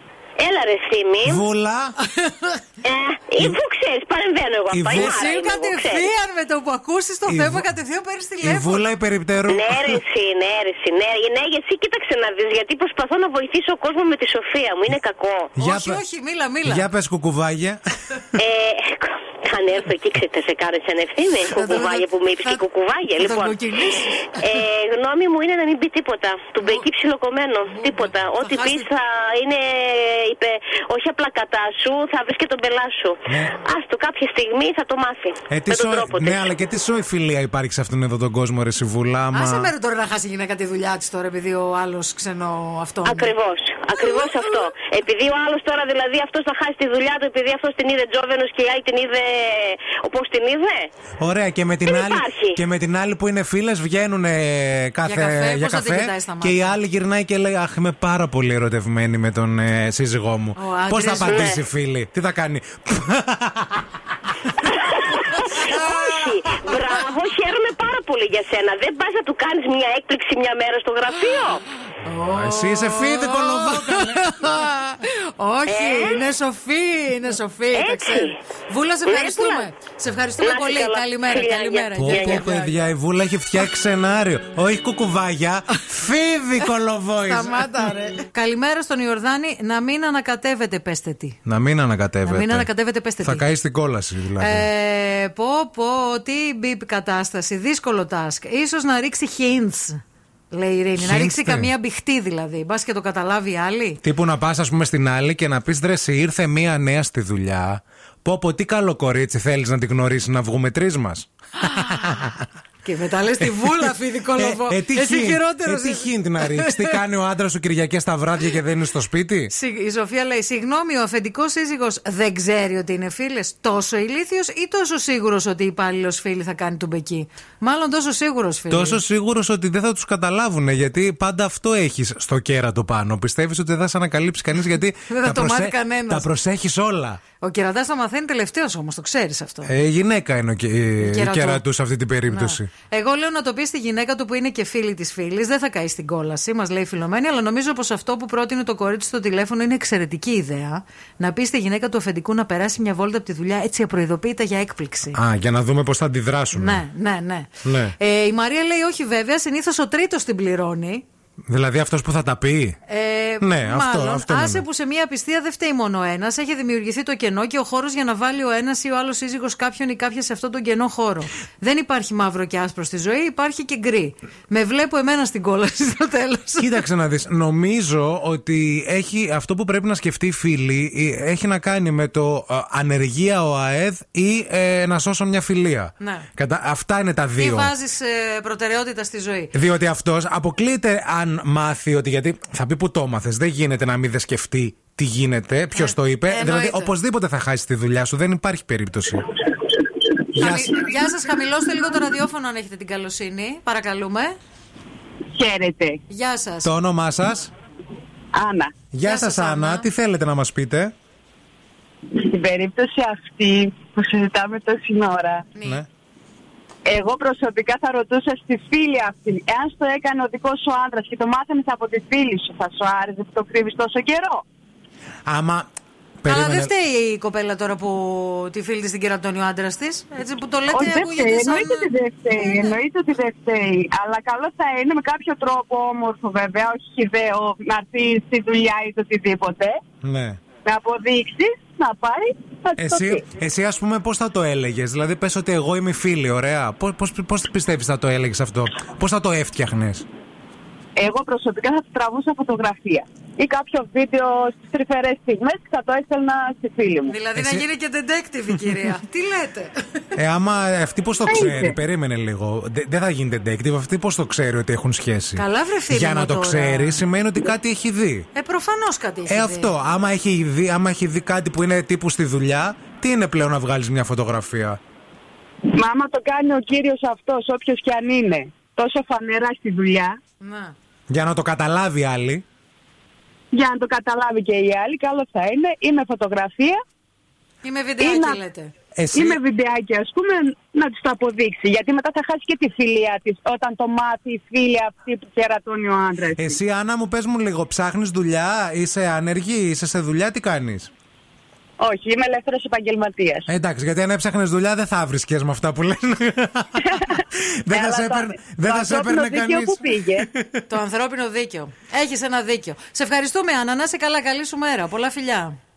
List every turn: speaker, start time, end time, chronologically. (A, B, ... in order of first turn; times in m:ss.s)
0:00.4-0:01.4 A
0:01.2-0:02.0 B
0:02.1-0:02.6 C
0:02.8-0:06.1 A
0:04.7-0:05.2 B
0:04.9-0:08.9 C
0:07.3-0:07.7 B
0:08.4-0:10.0 B
0:09.5-0:15.5 A
0:15.5-0:16.0 B
0:15.6-0:16.9 C
0:16.6-0:17.8 B
0:18.4-0:23.6 A
0:21.5-0:22.6 C
0:23.1-0:24.5 C
0:24.4-0:36.5 A
0:26.6-0:26.9 C
0:27.7-0:28.9 C
0:33.3-0:33.6 B
0:35.5-0:39.7 B
0:39.3-0:43.3 C
0:43.0-0:50.9 A
0:44.0-0:44.6 C
0:51.2-1:03.8 B
0:51.9-0:52.6 A
0:55.0-0:56.8 C
1:00.6-1:01.5 C
1:01.2-1:01.6 A
1:04.7-1:11.6 A
1:12.0-1:22.8 C
1:12.3-1:14.3 B
1:15.7-1:16.2 A
1:17.7-1:18.4 A
1:19.1-1:19.7 A
1:20.4-1:22.5 A
1:22.0-1:27.8 B
1:27.3-1:31.4 C
1:31.4-1:32.7 B
1:32.2-1:33.4 C
1:33.2-1:34.7 B
1:34.4-1:44.0 C
1:41.0-1:41.7 B
1:44.0-1:52.4 B
1:51.7-1:52.2 C
1:52.8-1:57.0 C
1:54.3-1:59.5 B
1:59.5-2:09.0 C
2:08.7-2:17.2 B
2:15.1-2:16.3 C
2:17.4-2:19.7 C
2:19.6-2:22.7 B
2:21.0-2:21.6 C
2:22.3-2:35.2 C
2:35.1-2:36.8 B
2:36.5-2:41.0 C
2:37.6-2:37.9 B
2:41.5-2:42.8 B
2:42.9-2:56.8 C
2:43.4-2:44.6 B
2:56.6-3:07.7 B
3:06.0-3:06.3 C
3:07.4-3:09.5 C
3:09.5-3:19.3 B
3:15.7-3:16.9 C
3:20.3-3:20.8 B
3:20.4-3:24.4 C
3:25.4-3:26.0 D
3:26.1-3:26.7 C
3:26.6-3:27.5 B
3:28.3-3:28.7 D
3:28.9-3:30.9 B
3:29.0-3:29.9 C
3:32.1-3:35.4 D
3:35.5-3:35.8 C
3:36.9-3:44.4 D
3:45.2-3:45.7 B
3:46.2-3:46.7 B
3:46.3-3:52.8 C
3:50.7-3:59.8 D
4:00.0-4:00.4 B
4:00.6-4:03.2 D
4:02.8-4:10.0 B
4:11.0-4:17.1 D
4:17.1-4:19.8 C
4:17.4-4:17.6 B
4:20.1-4:28.3 B
4:21.3-4:21.7 D
4:25.4-4:27.0 C
4:28.3-4:29.7 C
4:29.3-4:34.8 B
4:35.8-4:40.2 D
4:40.4-4:40.7 C
4:41.1-4:42.4 B
4:43.5-4:46.8 D
4:47.6-4:48.7 C
4:48.0-4:48.4 D
4:49.0-4:49.4 B
4:49.1-4:56.6 D
4:56.3-5:00.9 B
5:01.8-5:03.5 D
5:03.5-5:10.6 B
5:07.7-5:10.3 D
5:10.7-5:15.6 C